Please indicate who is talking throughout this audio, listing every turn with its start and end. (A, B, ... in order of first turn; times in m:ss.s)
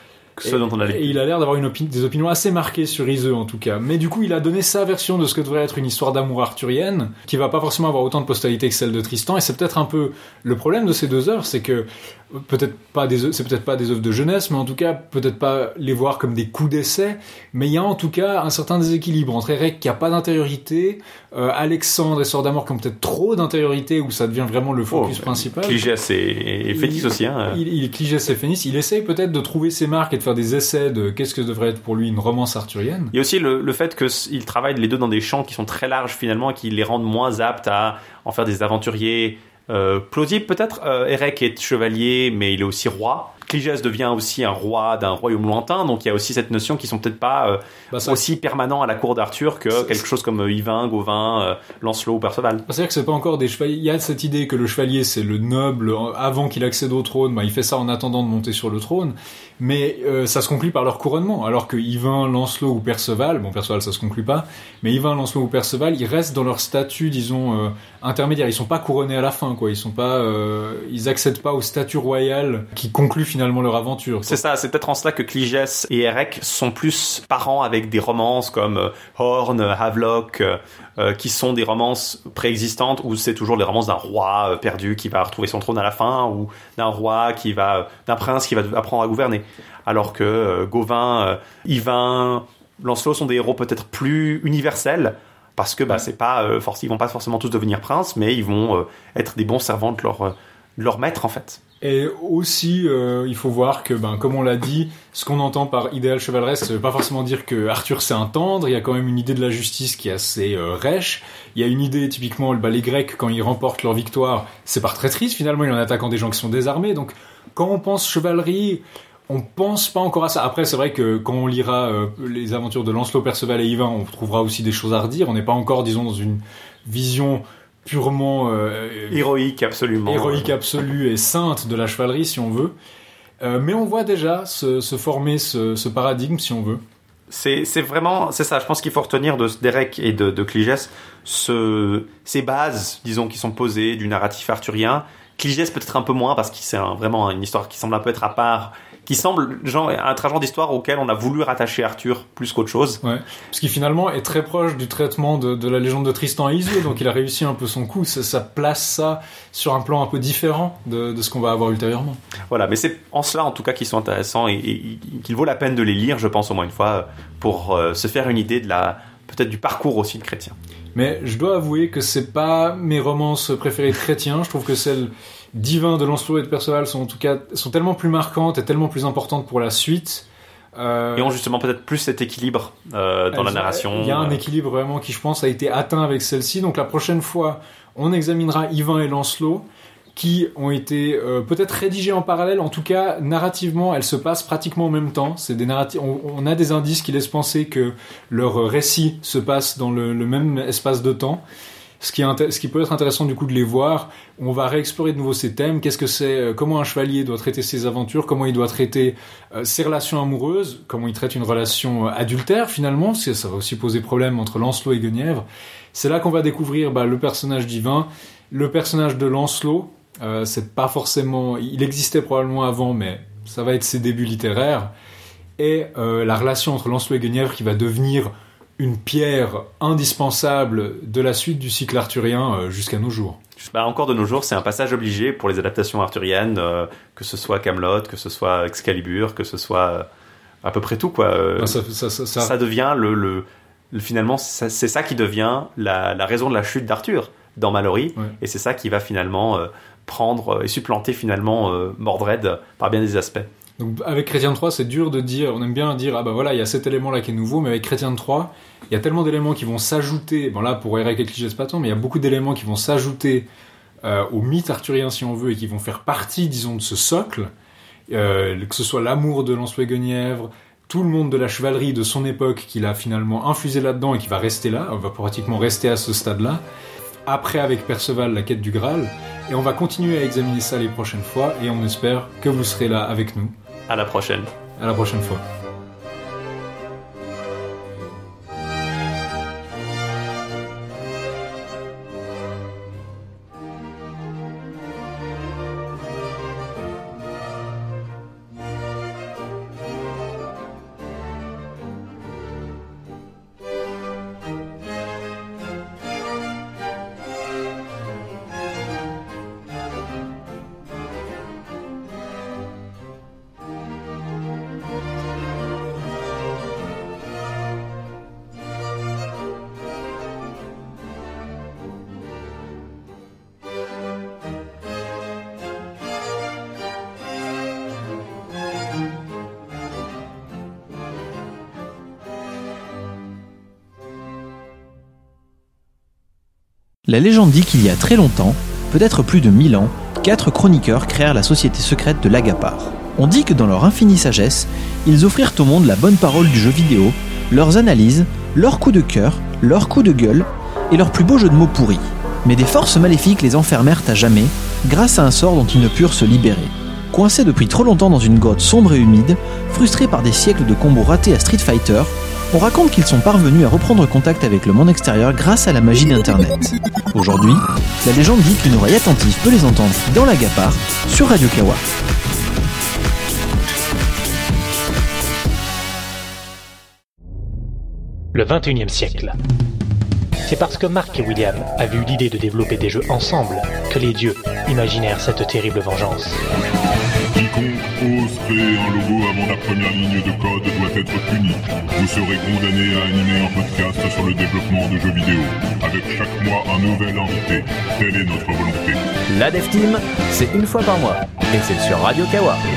0:00.4-0:01.2 A
0:00.4-0:25.8 B
0:24.9-0:27.6 A
0:26.7-0:33.1 B
0:33.1-0:52.6 A
0:47.9-0:48.2 B
0:49.7-0:50.0 B
0:52.7-1:14.4 B
1:14.2-1:41.6 A
1:41.8-2:09.2 B
2:09.1-2:10.5 A
2:10.0-2:12.7 B
2:13.4-2:16.8 B
2:17.3-2:33.0 A
2:33.0-2:42.2 B
2:42.5-2:50.6 A
2:50.9-3:01.4 B
3:01.1-3:04.4 A
3:03.3-3:21.4 B
3:22.0-3:44.9 B
3:45.6-3:53.4 B
3:53.6-4:00.1 A
4:00.6-4:01.8 A
4:01.6-4:02.5 B
4:02.4-4:13.5 A
4:13.8-4:23.5 B
4:24.0-4:27.5 B
4:28.1-4:36.6 B
4:37.3-4:43.5 B
4:43.9-4:44.5 A
4:44.8-4:45.4 B
5:37.1-6:11.8 C
6:18.3-6:19.3 D
6:20.4-6:26.4 D
6:27.3-6:39.0 E
6:39.3-6:42.6 C